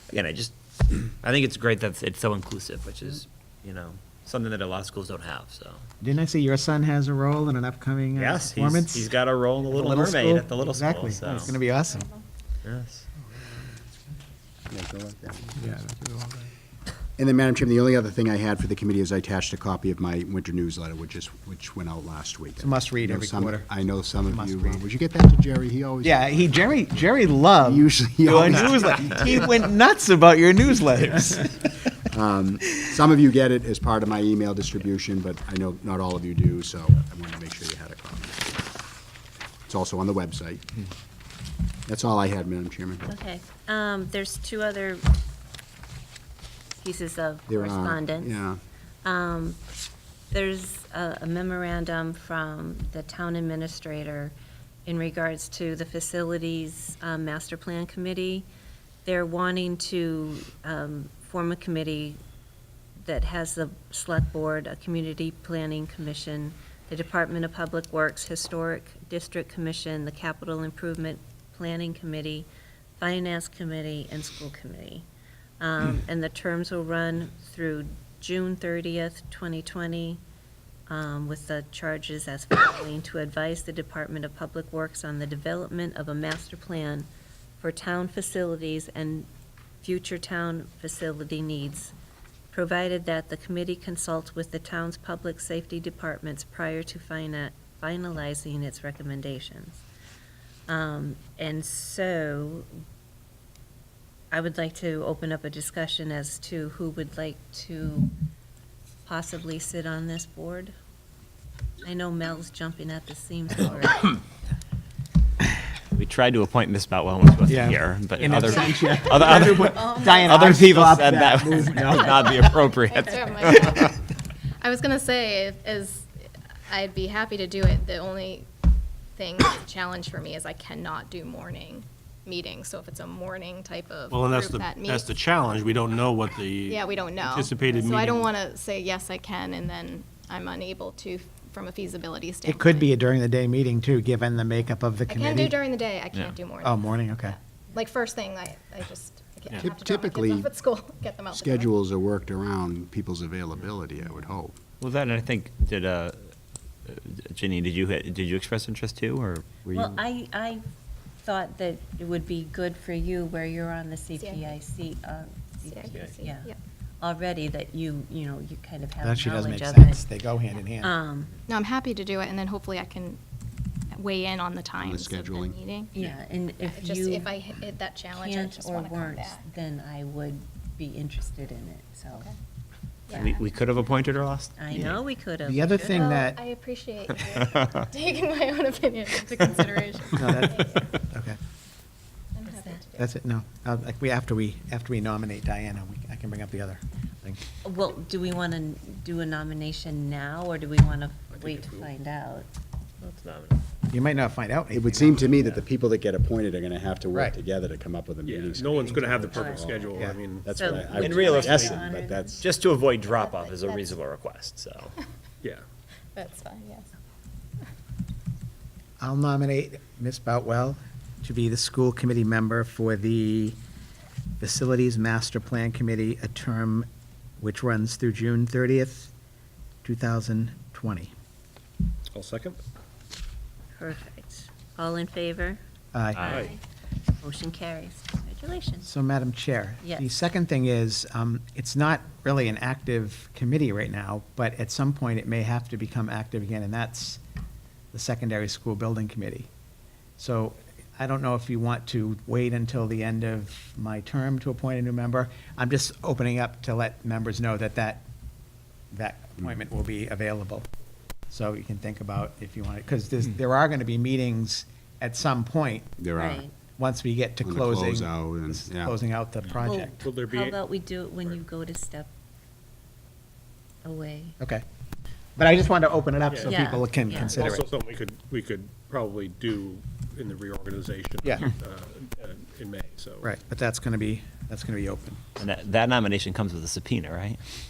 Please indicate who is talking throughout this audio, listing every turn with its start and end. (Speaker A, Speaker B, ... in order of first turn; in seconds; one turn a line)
Speaker A: 0.1-5.8
Speaker B: 6.0-9.1
Speaker A: 8.2-11.5
Speaker B: 9.7-12.1
Speaker A: 12.6-13.1
Speaker C: 14.7-15.6
Speaker B: 15.6-16.5
Speaker C: 17.2-26.3
Speaker B: 22.6-23.7
Speaker B: 24.2-24.9
Speaker B: 26.0-31.8
Speaker C: 27.6-29.2
Speaker C: 32.1-38.7
Speaker C: 39.7-40.6
Speaker C: 41.9-43.1
Speaker D: 43.0-45.0
Speaker D: 46.7-48.4
Speaker C: 47.5-48.6
Speaker D: 49.0-49.6
Speaker D: 50.3-54.3
Speaker D: 54.9-58.5
Speaker D: 59.0-62.2
Speaker D: 63.0-72.5
Speaker D: 73.0-75.1
Speaker D: 75.6-80.2
Speaker D: 80.9-87.1
Speaker D: 87.6-89.3
Speaker D: 89.8-91.9
Speaker D: 92.5-99.8
Speaker D: 100.7-102.7
Speaker D: 104.3-108.1
Speaker D: 109.0-110.7
Speaker D: 111.8-114.1
Speaker A: 115.9-123.9
Speaker B: 117.5-122.5
Speaker E: 122.9-124.0
Speaker E: 124.6-126.1
Speaker E: 126.7-128.5
Speaker E: 129.2-135.1
Speaker F: 134.1-138.3
Speaker E: 136.7-142.9
Speaker B: 142.5-145.6
Speaker E: 145.1-151.7
Speaker B: 146.6-147.4
Speaker C: 149.6-150.5
Speaker C: 151.3-154.6
Speaker A: 154.8-156.3
Speaker A: 156.9-160.0
Speaker D: 159.7-160.6
Speaker D: 161.2-166.5
Speaker E: 164.2-164.6
Speaker E: 165.7-166.6
Speaker D: 167.0-170.0
Speaker B: 169.0-170.9
Speaker D: 170.8-171.3
Speaker E: 171.5-173.2
Speaker E: 173.9-176.0
Speaker C: 174.8-175.6
Speaker D: 175.9-177.3
Speaker E: 176.6-179.5
Speaker D: 178.1-182.3
Speaker E: 183.1-183.4
Speaker A: 183.1-185.0
Speaker D: 184.6-186.0
Speaker B: 185.4-186.4
Speaker E: 185.9-190.9
Speaker B: 190.2-191.4
Speaker E: 192.3-193.1
Speaker D: 192.5-192.8
Speaker B: 193.0-197.4
Speaker D: 197.6-202.5
Speaker F: 201.3-201.9
Speaker A: 203.0-203.6
Speaker B: 203.9-205.3
Speaker C: 204.7-212.4
Speaker F: 208.2-211.8
Speaker D: 209.3-210.0
Speaker D: 210.5-212.3
Speaker A: 210.9-211.8
Speaker A: 212.3-214.9
Speaker E: 213.1-213.9
Speaker E: 216.2-216.9
Speaker B: 219.0-223.6
Speaker B: 224.4-226.9
Speaker B: 227.4-229.1
Speaker B: 229.8-231.1
Speaker F: 232.1-232.6
Speaker D: 233.8-235.6
Speaker B: 235.9-236.4
Speaker A: 236.2-236.4
Speaker F: 236.2-236.6
Speaker D: 236.2-236.6
Speaker D: 237.2-238.9
Speaker B: 238.8-247.2
Speaker B: 247.9-249.5
Speaker B: 250.2-258.0
Speaker B: 258.9-260.7
Speaker B: 261.3-265.9
Speaker C: 266.0-266.4
Speaker D: 266.2-266.5
Speaker B: 266.8-270.0
Speaker C: 267.4-268.9
Speaker D: 269.6-272.1
Speaker F: 270.0-270.6
Speaker D: 273.8-274.4
Speaker B: 275.4-277.6
Speaker F: 276.3-276.6
Speaker D: 276.4-277.4
Speaker F: 277.2-283.3
Speaker B: 281.2-281.5
Speaker B: 283.2-285.2
Speaker A: 285.4-287.4